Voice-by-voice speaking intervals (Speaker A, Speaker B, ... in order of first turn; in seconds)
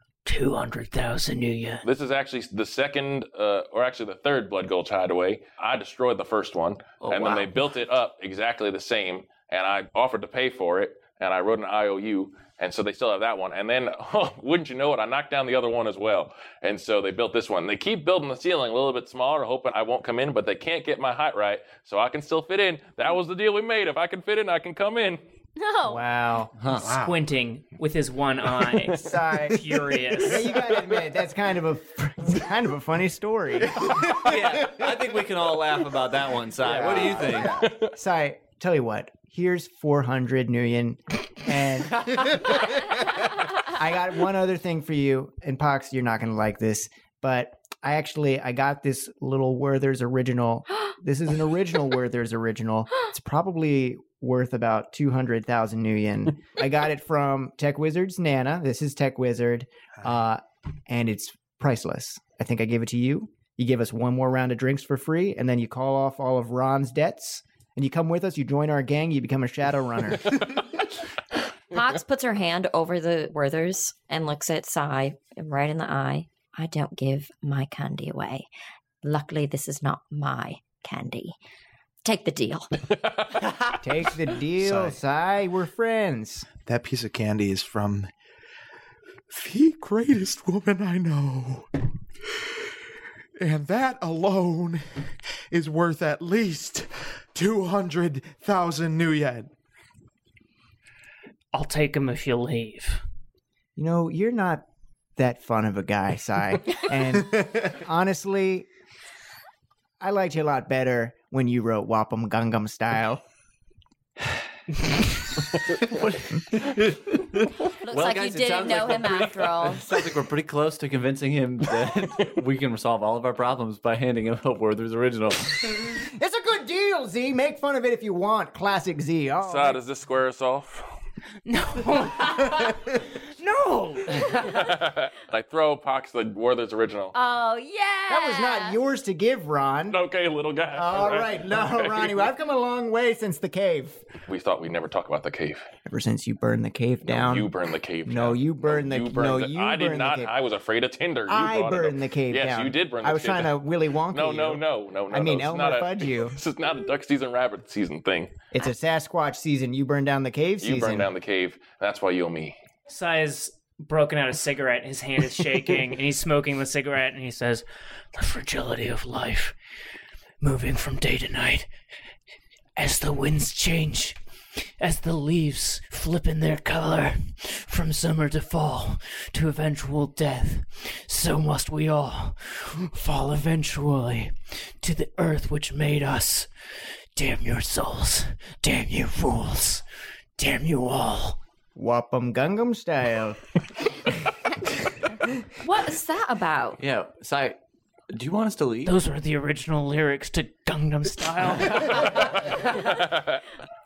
Speaker A: 0.2-1.8, 26.8-30.6, 101.5-103.0, 131.4-134.4, 162.9-169.5, 170.4-171.7, 172.8-174.2, 174.8-186.5, 187.2-189.8, 190.4-191.4, 198.8-202.3
Speaker B: 1.8-25.2, 37.5-37.9, 129.4-130.9, 134.3-137.2, 139.9-142.2, 144.3-145.7, 147.1-153.6, 154.1-158.3, 160.6-162.6
Speaker C: 7.0-7.7, 26.6-26.9, 34.0-37.6, 115.7-125.9, 196.8-197.6, 198.1-198.9
Speaker D: 25.6-26.0, 71.7-78.5, 79.0-81.3, 82.0-82.8, 117.8-119.9, 137.1-138.8, 195.5-196.8
Speaker E: 25.8-26.5, 28.9-33.9, 36.6-42.8, 43.5-70.4, 83.7-86.5, 103.8-104.6, 105.2-108.7, 110.0-113.2, 125.9-129.8, 138.1-140.0, 140.7-144.0, 145.8-147.5, 148.0-150.3, 151.3-156.4, 158.5-161.1, 191.7-193.4
Speaker F: 26.7-27.2, 33.8-34.9, 36.7-37.7, 84.6-85.0, 86.7-88.1, 89.3-91.7, 93.4-99.5